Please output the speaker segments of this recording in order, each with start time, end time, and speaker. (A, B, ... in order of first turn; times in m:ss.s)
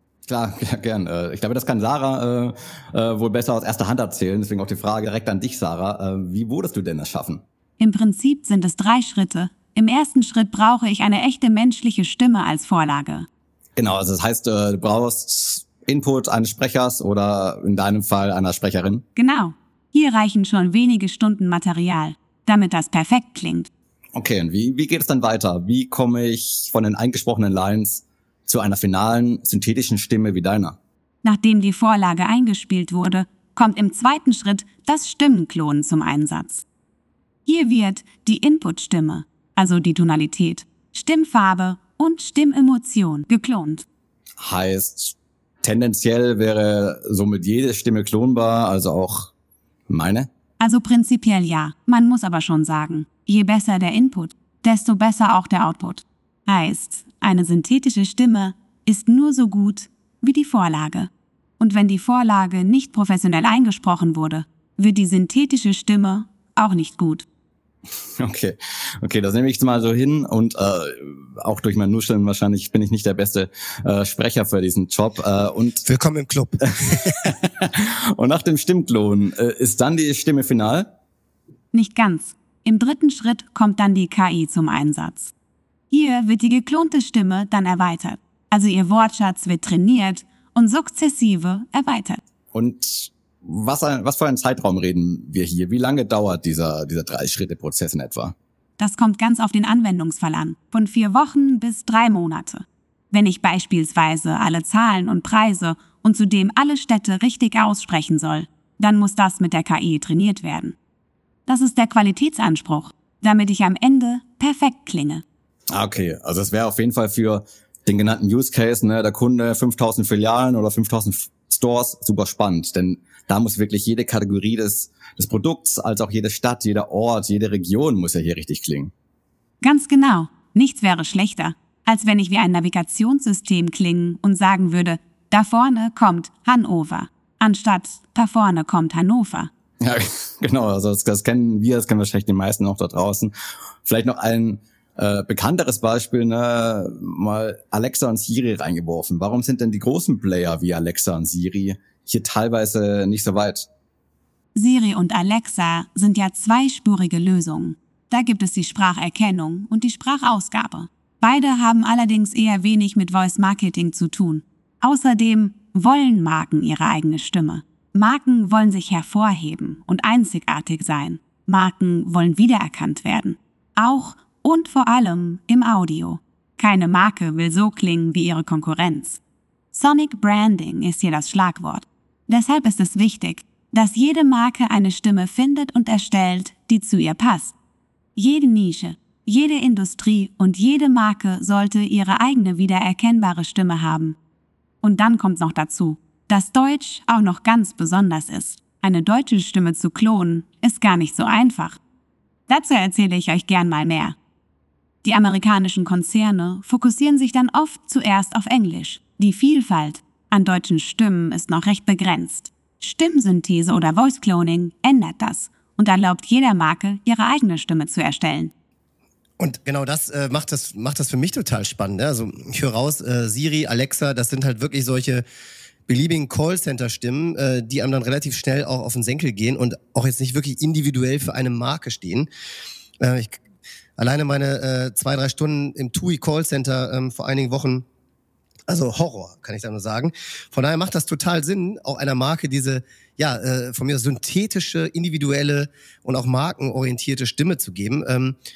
0:00.3-0:07.4 A
0:07.8-0:13.3 B
0:13.8-0:19.0 A
0:19.2-0:23.7 B
0:24.2-0:30.8 A
0:31.2-0:36.6 B
0:37.5-0:43.9 B
0:44.4-0:49.3 A
0:49.9-0:50.3 A
0:50.6-1:07.2 B
1:08.2-1:15.8 A
1:15.8-1:17.2 C
1:16.7-1:20.9 A
1:21.7-1:25.3 B
1:25.9-1:32.2 B
1:32.5-1:38.4 A
1:38.8-1:50.8 B
1:51.5-1:55.2 B
1:55.7-2:08.9 A
2:09.6-2:19.5 B
2:19.8-2:23.3 A
2:23.9-2:33.7 A
2:34.6-2:59.2 B
2:59.7-3:07.6 B
3:08.2-3:14.2 B
3:14.8-3:21.8 B
3:22.5-3:24.2 B
3:25.0-3:38.5 B
3:39.4-3:45.2 C
3:45.9-3:52.3 C
3:53.0-3:53.4 C
3:54.0-3:57.9 C
3:58.7-4:08.4 C